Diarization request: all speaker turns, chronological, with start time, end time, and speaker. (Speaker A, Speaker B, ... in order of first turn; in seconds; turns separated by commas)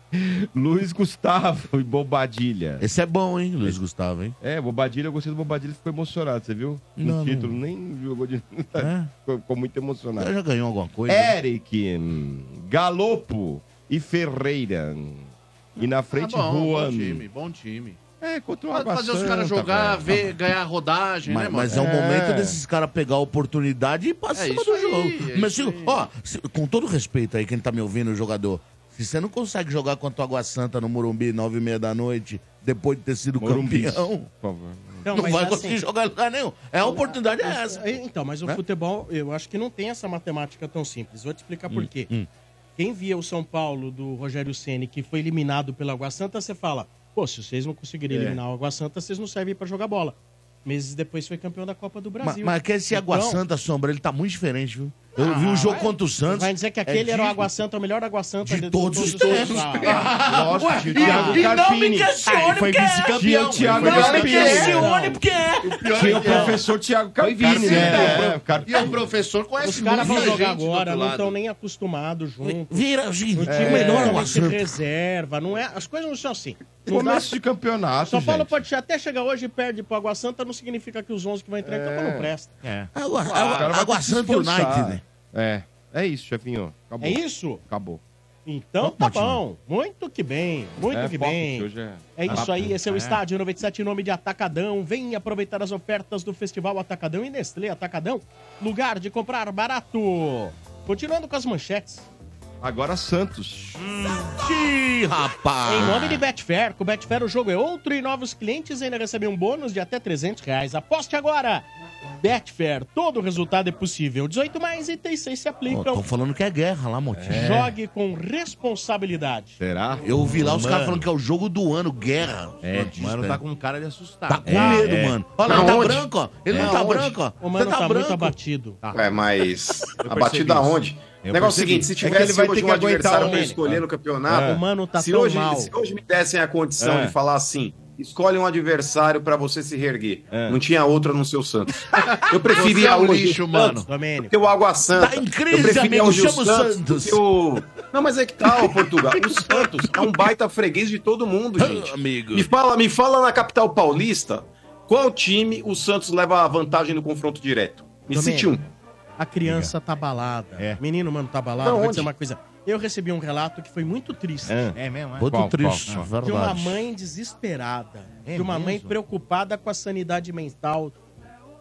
Speaker A: 0.1-2.9, Speaker B: 2.8-4.3, Speaker A: 4.4-10.3, Speaker B: 7.0-7.6, Speaker B: 8.8-9.1, Speaker B: 10.2-11.3, Speaker A: 11.1-17.2, Speaker C: 16.1-18.0, Speaker A: 18.2-20.4, Speaker C: 18.7-21.8, Speaker B: 21.2-34.3, Speaker A: 21.7-22.6, Speaker C: 24.3-26.0, Speaker A: 33.4-35.0, Speaker D: 35.0-35.8, Speaker B: 35.0-38.6, Speaker D: 36.8-42.1, Speaker B: 41.7-42.3, Speaker D: 42.8-53.4, Speaker A: 48.1-48.4, Speaker B: 52.2-57.5, Speaker D: 55.2-60.0, Speaker B: 58.4-66.5, Speaker A: 60.0-62.2, Speaker E: 60.9-61.6, Speaker E: 62.2-64.9, Speaker A: 63.1-64.9, Speaker D: 63.8-65.2, Speaker E: 65.6-66.7, Speaker A: 65.9-69.0, Speaker D: 66.1-66.6, Speaker E: 67.2-68.4, Speaker B: 67.4-68.4, Speaker C: 67.4-68.0, Speaker C: 68.6-71.3, Speaker D: 69.6-77.3, Speaker B: 72.4-74.8, Speaker A: 73.4-74.3, Speaker A: 76.8-78.6, Speaker D: 78.0-82.5, Speaker A: 81.6-82.3, Speaker E: 82.6-82.9, Speaker B: 82.9-85.0, Speaker C: 83.2-83.7, Speaker A: 83.4-88.0, Speaker D: 87.0-87.6, Speaker D: 88.5-102.0, Speaker B: 88.8-89.4, Speaker A: 90.9-92.7, Speaker E: 92.3-93.2, Speaker A: 102.6-103.9, Speaker B: 104.2-106.2, Speaker D: 105.6-111.7, Speaker D: 112.2-116.0, Speaker B: 115.7-117.7, Speaker A: 117.1-117.5, Speaker D: 117.3-119.6, Speaker A: 119.6-120.1, Speaker B: 120.0-123.4, Speaker E: 120.3-121.1, Speaker A: 122.6-123.0, Speaker E: 122.7-125.2, Speaker B: 124.3-128.3, Speaker D: 124.5-125.0, Speaker F: 125.4-126.1, Speaker A: 126.5-126.8, Speaker D: 126.5-128.8, Speaker E: 128.8-131.9, Speaker F: 128.9-158.7, Speaker A: 131.4-134.6, Speaker D: 133.1-133.6, Speaker D: 134.3-135.7, Speaker A: 136.8-137.1, Speaker A: 140.3-140.6, Speaker C: 142.0-143.9, Speaker D: 143.9-144.4, Speaker B: 144.9-147.2, Speaker B: 148.6-150.0, Speaker B: 151.6-152.5, Speaker D: 158.1-158.6, Speaker D: 159.2-164.5, Speaker E: 159.4-159.7, Speaker F: 161.6-162.1, Speaker A: 164.4-165.8, Speaker E: 164.7-166.1, Speaker B: 165.2-166.8, Speaker D: 166.2-170.9, Speaker E: 168.2-169.0